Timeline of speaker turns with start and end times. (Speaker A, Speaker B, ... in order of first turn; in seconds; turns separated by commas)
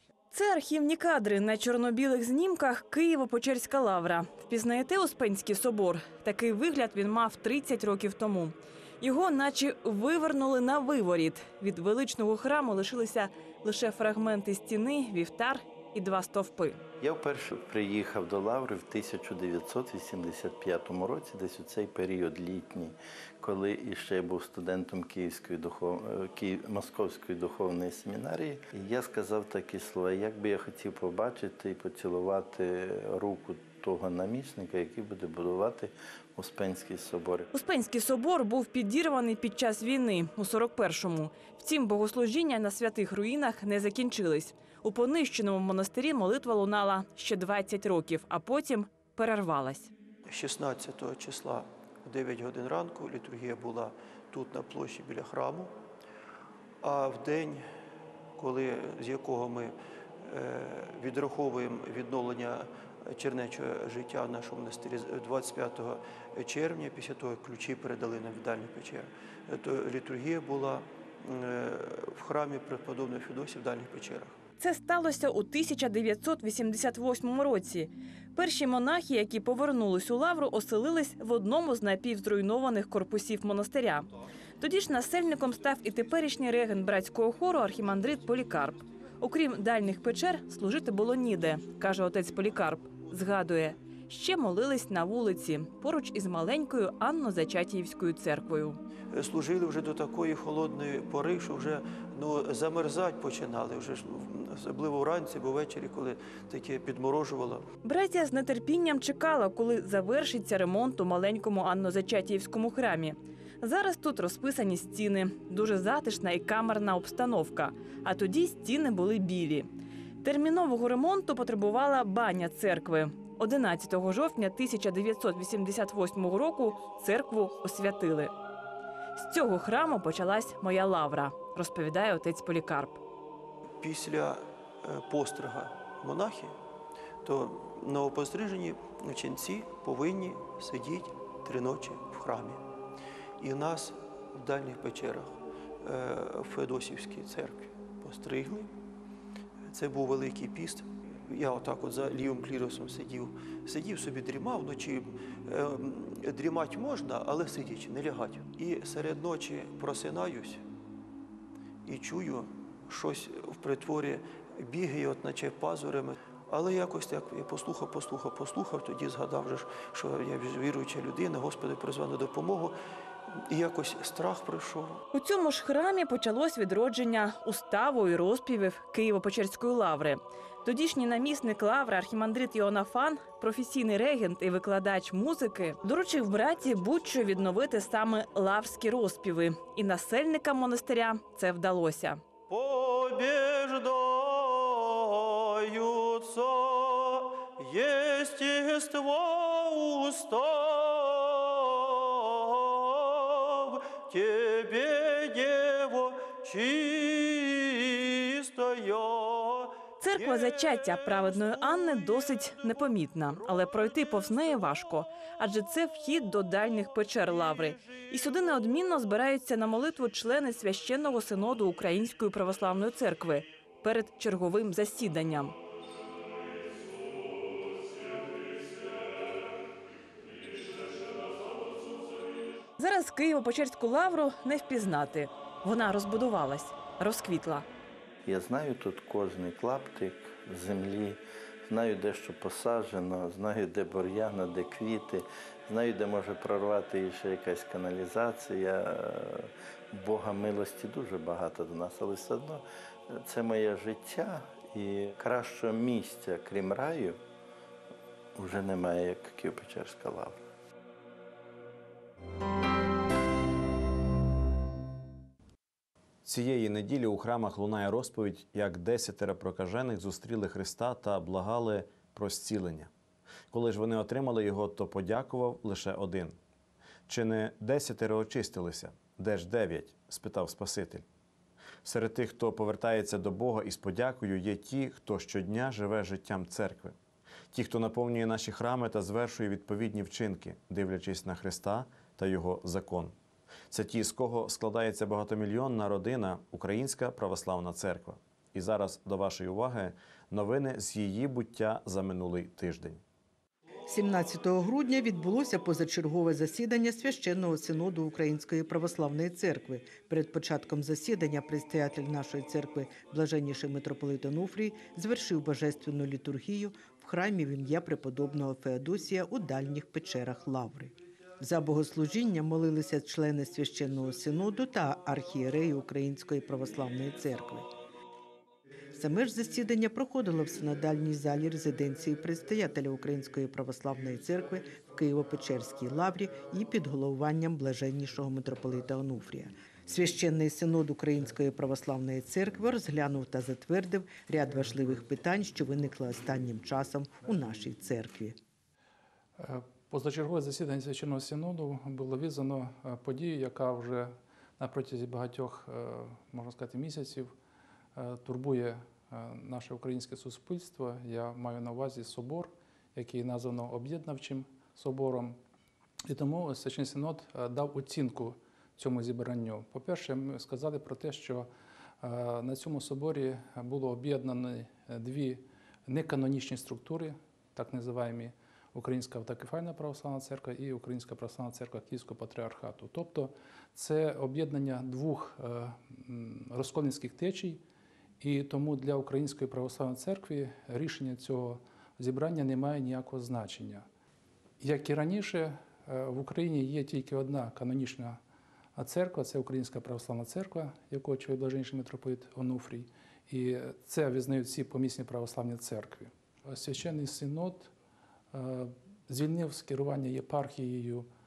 Speaker A: 0.3-16.8, Speaker B: 17.0-37.5, Speaker A: 37.5-49.9, Speaker C: 50.2-55.8, Speaker C: 56.8-57.6, Speaker C: 58.4-74.4, Speaker A: 74.6-84.1, Speaker A: 84.6-98.8, Speaker C: 99.1-107.7, Speaker A: 107.8-119.7, Speaker A: 120.2-128.3, Speaker A: 129.2-133.0, Speaker C: 133.8-136.5, Speaker C: 137.2-142.6, Speaker C: 143.4-148.7, Speaker C: 149.7-160.6, Speaker C: 161.8-172.8, Speaker C: 173.3-175.0, Speaker A: 175.1-192.2, Speaker C: 192.5-209.8, Speaker A: 210.0-225.5, Speaker A: 232.8-237.7, Speaker B: 238.2-257.2, Speaker B: 258.4-260.4, Speaker D: 266.2-272.9, Speaker D: 273.5-276.3, Speaker D: 277.1-281.0, Speaker D: 281.8-286.9, Speaker D: 287.5-293.1, Speaker D: 293.7-303.0, Speaker E: 303.9-327.7, Speaker E: 328.9-348.4, Speaker F: 349.4-357.3, Speaker F: 357.9-365.4, Speaker F: 366.1-371.5, Speaker F: 372.0-387.6, Speaker F: 388.2-393.9, Speaker F: 394.6-398.2, Speaker F: 398.8-407.7, Speaker F: 408.3-411.1